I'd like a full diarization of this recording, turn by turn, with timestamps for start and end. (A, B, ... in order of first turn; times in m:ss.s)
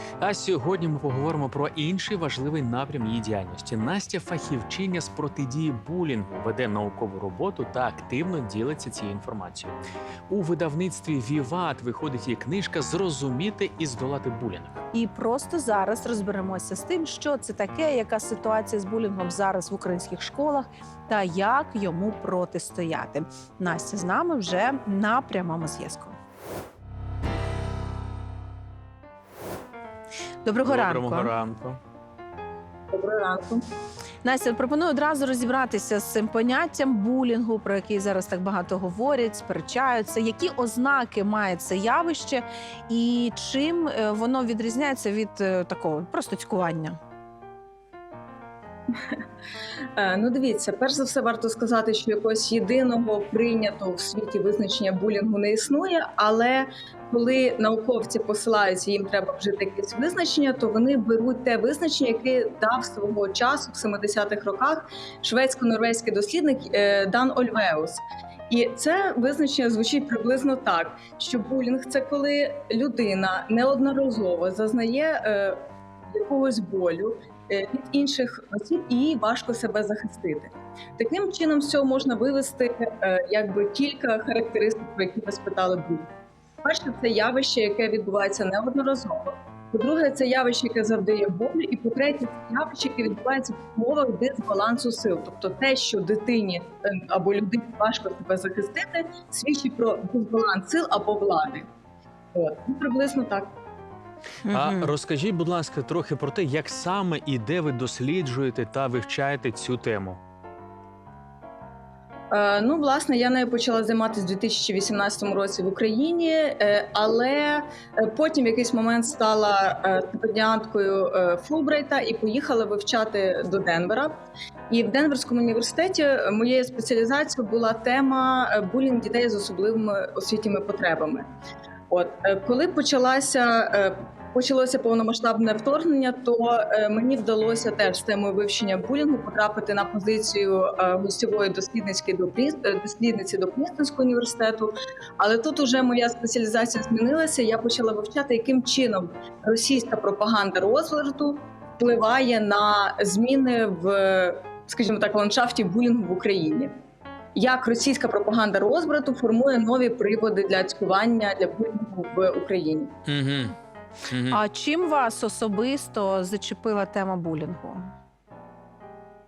0:00.2-0:14.8 A
0:14.9-0:26.2 B
0:30.4-0:31.3 B
0:30.6-0:31.8 A
0:32.9-0:33.6 C
0:34.2-0:47.0 B
0:50.0-1:15.6 C
1:16.1-1:26.1 C
1:26.6-1:41.7 C
1:42.3-1:43.5 C
1:44.4-1:44.9 B
1:44.5-1:50.2 A
1:52.3-2:04.2 C
2:04.7-2:11.3 C
2:11.9-2:36.7 C
2:37.3-2:42.9 C
2:43.1-2:43.5 A
2:44.1-2:44.4 A
2:44.3-2:47.9 B